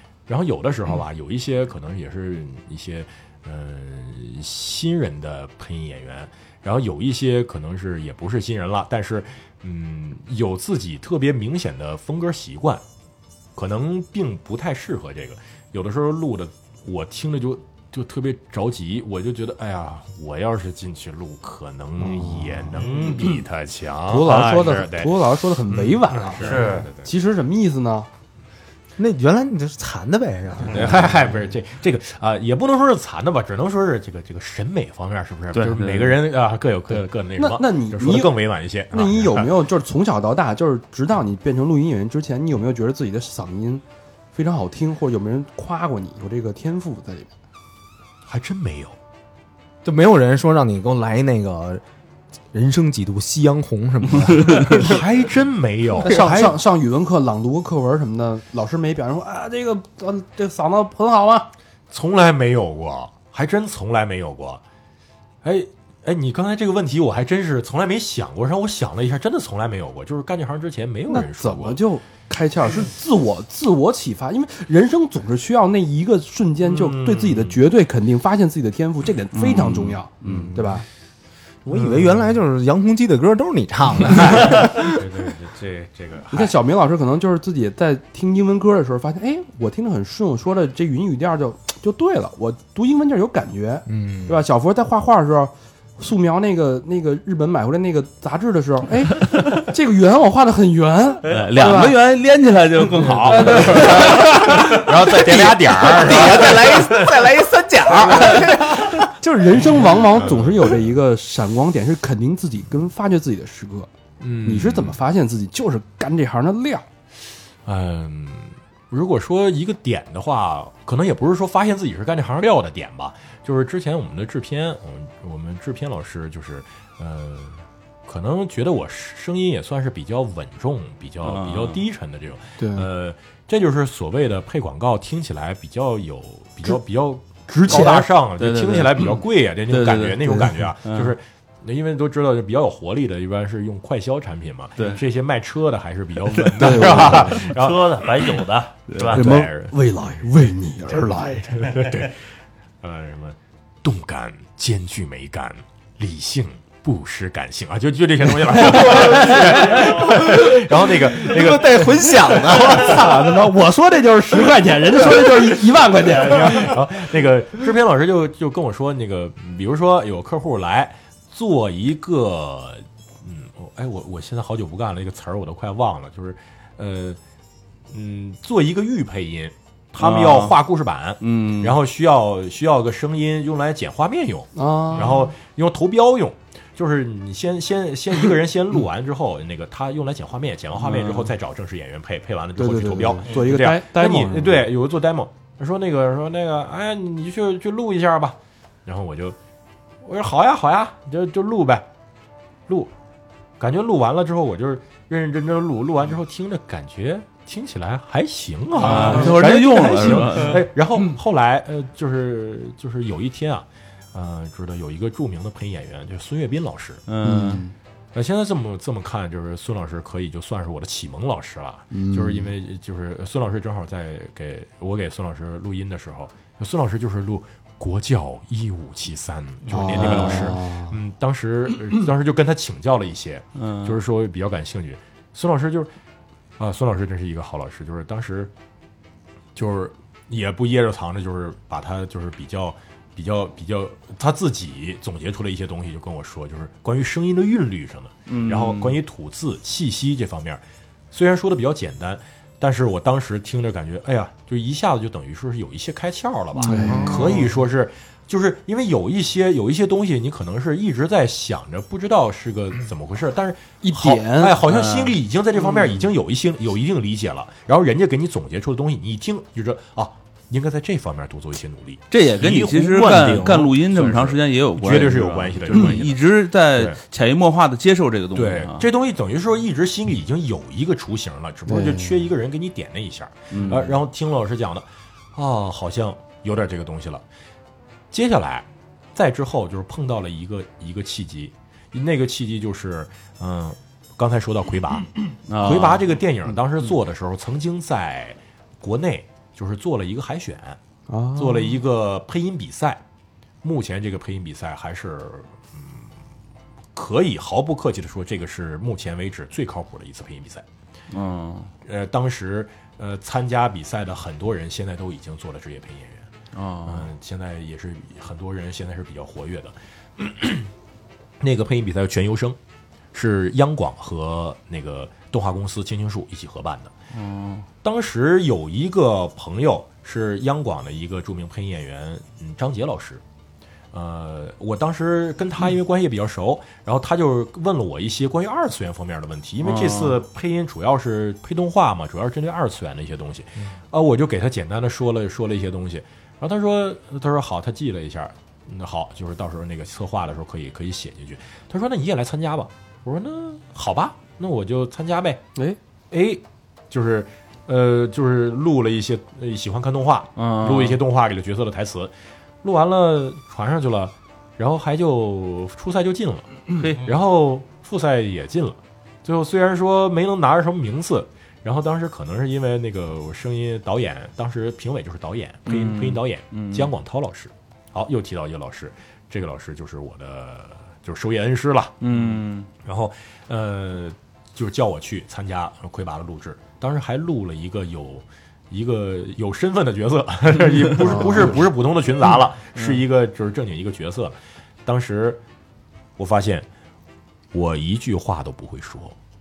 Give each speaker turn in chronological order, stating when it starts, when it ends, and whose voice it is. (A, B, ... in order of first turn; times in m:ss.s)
0:00.3-0:12.8 A
0:13.6-0:27.1 A
0:22.0-0:23.4 B
0:22.8-0:23.2 C
0:24.1-0:28.1 B
0:26.4-0:26.9 C
0:29.0-0:31.2 D
0:30.6-0:39.5 A
0:35.5-0:36.2 E
0:37.4-0:38.3 B
0:38.9-0:43.8 B
0:44.3-0:47.3 B
0:48.3-0:49.0 A
0:49.8-0:51.8 D
0:52.5-0:55.0 D
0:54.6-0:56.5 A
0:56.0-1:01.5 B
0:56.0-0:56.5 D
1:01.9-1:04.6 A
1:05.4-1:11.8 A
1:11.1-1:20.8 B
1:16.6-1:17.6 A
1:19.3-1:20.5 E
1:21.7-1:25.0 D
1:21.7-1:22.3 A
1:24.3-1:26.5 A
1:26.3-1:42.0 B
1:33.9-1:34.4 D
1:41.2-1:48.5 E
1:42.9-1:44.3 B
1:43.0-1:46.8 A
1:45.9-1:48.8 D
1:47.9-1:53.9 B
1:50.2-1:50.8 A
1:54.2-1:55.0 A
1:54.4-1:56.8 B
1:57.6-2:28.3 A
2:11.2-2:11.8 E
2:12.6-2:12.9 B
2:17.5-2:18.1 B
2:18.4-2:21.1 E
2:26.4-2:27.3 E
2:26.6-2:27.4 B
2:26.8-2:29.2 C
2:28.9-2:29.2 E
2:29.1-2:29.8 A
2:29.1-2:31.6 B
2:31.4-2:32.2 A
2:32.8-2:43.0 A
2:38.6-2:39.1 B
2:41.2-2:43.1 D
2:42.5-2:46.7 B
2:46.3-2:57.2 A
2:57.9-3:19.4 A
3:00.0-3:00.6 E
3:01.2-3:01.8 E
3:04.6-3:05.3 B
3:10.8-3:11.3 E
3:12.6-3:14.6 B
3:20.0-3:21.8 A
3:23.6-3:37.0 A
3:28.8-3:30.6 E
3:37.1-3:37.7 E
3:37.2-3:37.7 B
3:38.1-3:55.9 A
3:41.9-3:42.5 B
3:49.7-3:51.0 B
3:50.0-3:50.5 E
3:53.6-3:54.0 E
3:56.6-3:58.5 A
3:59.5-4:37.0 A
4:08.3-4:09.0 E
4:16.7-4:17.4 B
4:16.8-4:17.3 E
4:23.8-4:24.6 B
4:24.6-4:26.0 E
4:32.1-4:38.9 E
4:38.3-4:47.2 A
4:41.7-4:42.3 B
4:43.5-4:44.0 E
4:48.1-5:00.8 A
4:55.5-4:56.1 E
5:01.1-5:01.8 B
5:01.4-5:03.0 A
5:03.6-5:06.1 A
5:06.9-5:10.6 A
5:11.1-5:11.7 E
5:11.8-5:16.3 A
5:16.5-5:17.1 E
5:16.8-5:20.7 A
5:21.4-5:22.6 A
5:23.1-5:26.9 A
5:27.1-5:27.7 E
5:27.8-5:33.2 A
5:33.9-5:55.4 A
5:39.6-5:40.2 E
5:56.1-6:02.1 A
6:00.4-6:01.0 E
6:02.6-6:34.3 A
6:06.8-6:07.1 E
6:15.7-6:16.9 E
6:22.0-6:22.7 E
6:32.8-6:33.0 E
6:34.8-6:35.4 A
6:36.2-6:36.7 A
6:37.5-6:39.2 A